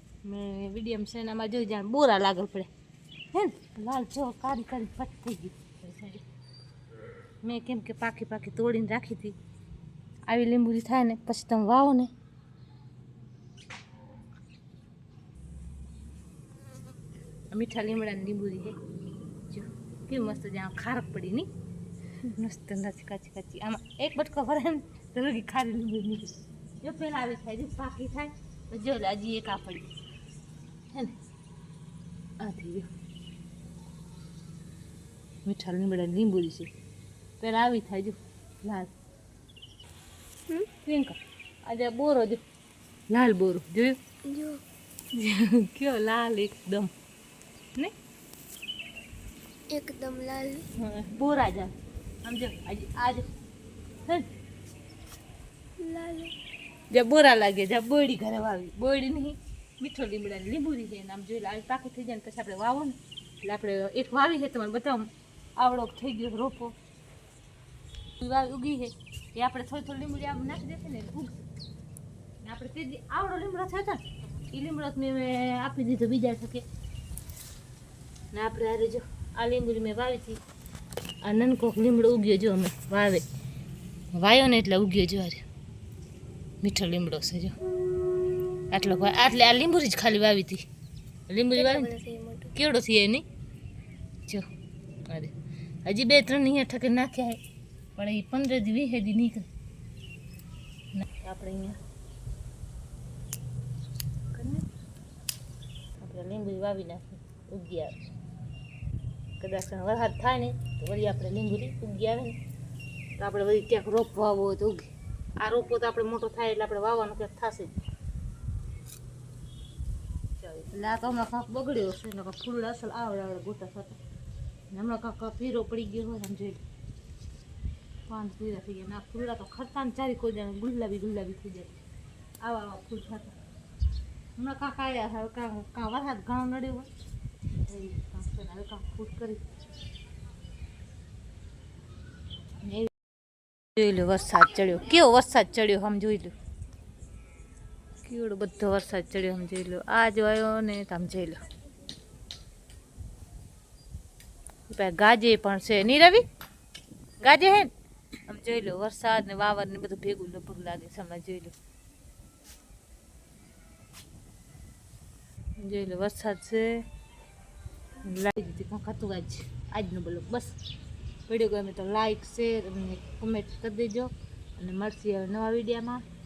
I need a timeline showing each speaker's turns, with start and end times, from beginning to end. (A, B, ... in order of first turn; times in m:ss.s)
0:00.2-0:02.7 A
0:03.3-0:06.2 A
0:07.4-0:09.4 A
0:10.3-0:12.1 A
0:17.5-0:18.8 A
0:19.5-0:21.5 A
0:22.2-0:29.9 A
0:30.9-0:31.2 A
0:32.4-0:32.9 A
0:35.4-0:36.7 A
0:37.4-0:38.9 A
0:40.8-0:42.4 A
0:43.1-0:44.0 A
0:44.2-0:44.6 B
0:45.1-0:46.9 A
0:49.7-0:50.7 B
0:50.8-0:53.3 A
0:55.8-0:56.4 B
0:56.9-1:06.8 A
1:08.2-1:11.5 A
1:12.4-1:16.6 A
1:18.3-1:20.4 A
1:21.2-1:23.2 A
1:24.1-1:25.5 A
1:26.6-1:27.6 A
1:28.7-1:30.7 A
1:31.3-1:32.0 A
1:31.6-1:32.5 B
1:32.5-1:33.2 A
1:35.1-1:37.4 A
1:38.0-1:39.5 A
1:41.0-1:41.8 A
1:44.3-1:44.7 A
1:46.0-1:48.0 A
1:49.4-1:52.4 A
1:53.2-1:57.8 A
2:00.4-2:04.0 A
2:04.7-2:06.6 A
2:08.1-2:11.8 A
2:12.4-2:13.4 A
2:14.4-2:16.9 A
2:17.7-2:19.4 A
2:22.6-2:22.9 A
2:23.8-2:26.3 A
2:28.0-2:31.4 A
2:34.7-2:36.2 A
2:37.2-2:37.7 A
2:38.3-2:41.5 A
2:45.6-2:46.8 A
2:48.0-2:50.6 A
2:51.3-2:56.0 A